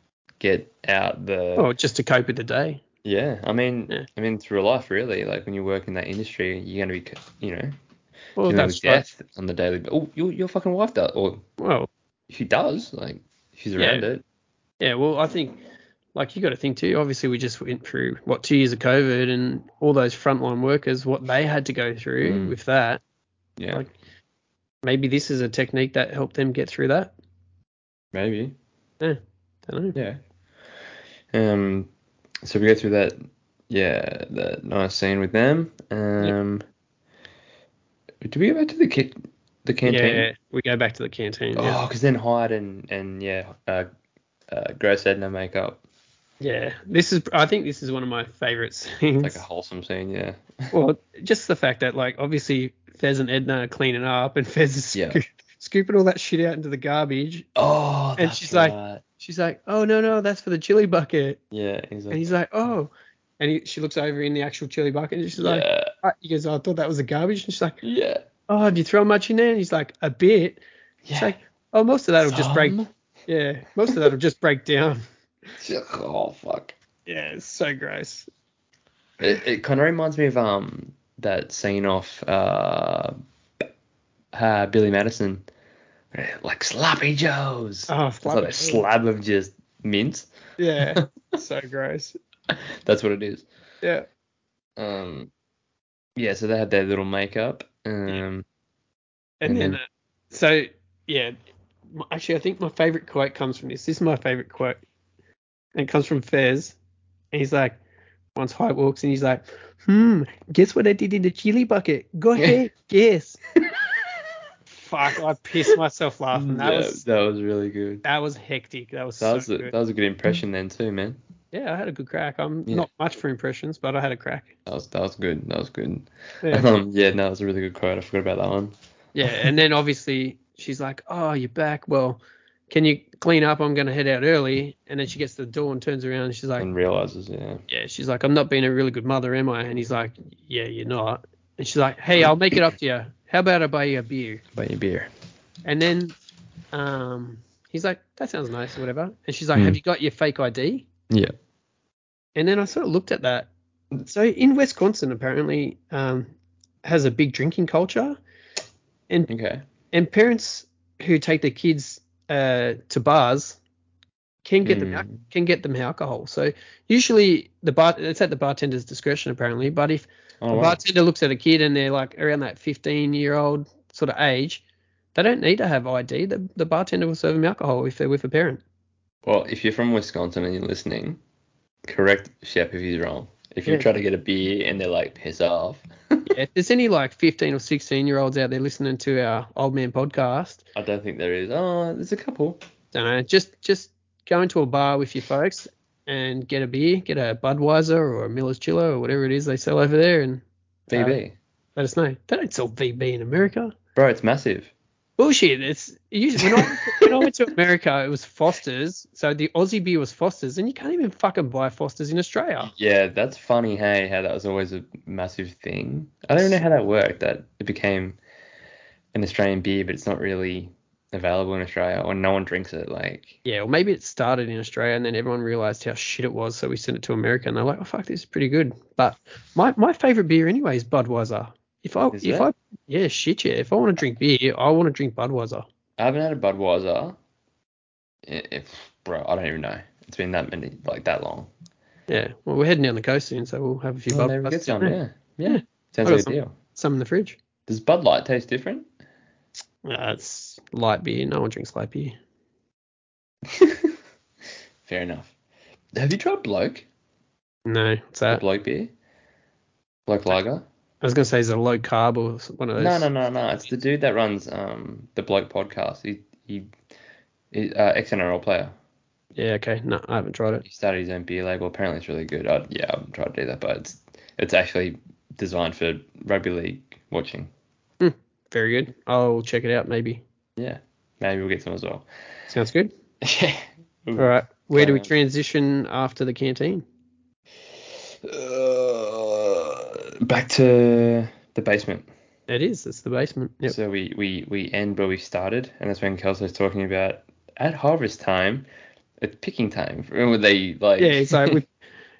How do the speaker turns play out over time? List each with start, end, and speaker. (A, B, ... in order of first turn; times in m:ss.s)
0:00.4-0:01.7 A
0:01.6-0:02.8 B
0:03.0-0:07.7 A
0:08.4-0:09.0 B
0:08.4-0:11.4 A
0:11.6-0:11.9 B
0:12.3-0:14.2 A
0:13.8-0:14.0 B
0:14.8-0:15.6 B
0:16.1-0:23.0 B
0:22.2-0:22.6 A
0:23.6-0:23.9 A
0:24.8-0:27.1 B
0:28.1-0:28.5 A
0:29.0-0:30.0 B
0:31.3-0:31.9 A
0:32.4-0:33.2 A
0:33.7-0:36.6 A
0:38.2-0:40.3 A
0:39.8-0:41.8 B
0:41.6-0:43.9 A
0:44.5-0:45.8 A
0:46.4-0:49.4 B
0:49.2-0:50.7 A
0:50.7-0:57.5 B
0:54.9-0:55.2 A
0:57.6-0:59.0 A
0:58.2-1:01.4 B
1:01.5-1:02.3 A
1:02.1-1:07.8 B
1:05.4-1:05.9 A
1:07.8-1:08.2 A
1:08.5-1:10.6 B
1:11.0-1:11.3 A
1:11.1-1:15.0 B
1:12.2-1:12.9 A
1:15.6-1:16.7 A
1:17.1-1:18.3 B
1:19.2-1:23.1 A
1:24.3-1:25.4 A
1:26.1-1:30.3 A
1:27.9-1:28.9 B
1:30.6-1:32.2 B
1:30.8-1:31.1 A
1:32.5-1:33.5 A
1:34.8-1:35.3 A
1:36.2-1:38.4 A
1:39.4-1:41.3 B
1:39.4-1:39.8 A
1:41.9-1:44.8 B
1:45.7-1:46.8 B
1:47.3-1:47.8 B
1:48.3-1:53.4 B
1:54.7-1:57.0 B
1:56.3-1:58.0 A
1:58.0-1:59.7 B
1:59.2-2:01.2 A
2:01.5-2:04.5 B
2:04.6-2:08.7 A
2:06.4-2:06.7 B
2:09.1-2:16.7 B
2:09.2-2:09.5 A
2:16.6-2:17.6 A
2:17.7-2:24.4 B
2:22.2-2:22.6 A
2:24.5-2:25.1 A
2:25.6-2:26.1 B
2:26.7-2:30.8 B
2:32.4-2:36.3 B
2:36.8-2:38.2 B
2:39.3-2:39.6 A
2:39.9-2:43.6 B
2:44.4-2:54.6 B
2:44.6-2:45.2 A
2:50.4-2:50.8 A
2:55.1-2:58.6 B
2:59.2-3:01.2 A
3:01.9-3:06.3 A
3:03.6-3:03.9 B
3:06.3-3:10.6 B
3:10.7-3:12.6 A
3:12.9-3:21.2 B
3:20.9-3:21.4 A
3:21.8-3:23.7 B
3:24.0-3:24.7 A
3:25.2-3:32.7 B
3:26.4-3:27.2 A
3:32.7-3:38.2 A
3:39.1-3:43.4 A
3:43.4-3:55.6 B
3:52.1-3:52.5 A
3:56.0-3:57.2 A
3:58.2-4:01.5 A
4:02.1-4:07.4 B
4:04.1-4:06.5 A
4:07.7-4:08.9 A
4:09.8-4:12.2 B
4:13.5-4:14.0 A
4:14.8-4:15.3 A
4:16.0-4:16.8 A
4:17.6-4:18.4 B
4:18.3-4:18.9 A
4:20.1-4:20.6 A
4:21.0-4:23.1 B
4:22.8-4:26.7 A
4:27.5-4:28.7 A
4:29.4-4:30.6 B
4:30.6-4:37.5 A
4:38.0-4:40.2 B
4:40.6-4:42.0 A
4:42.5-4:42.9 B
4:43.2-4:45.1 A
4:44.2-4:46.8 B
4:48.2-4:52.1 A
4:52.5-4:53.8 B
4:53.7-4:58.7 A
4:59.2-5:01.6 A
5:01.0-5:01.7 B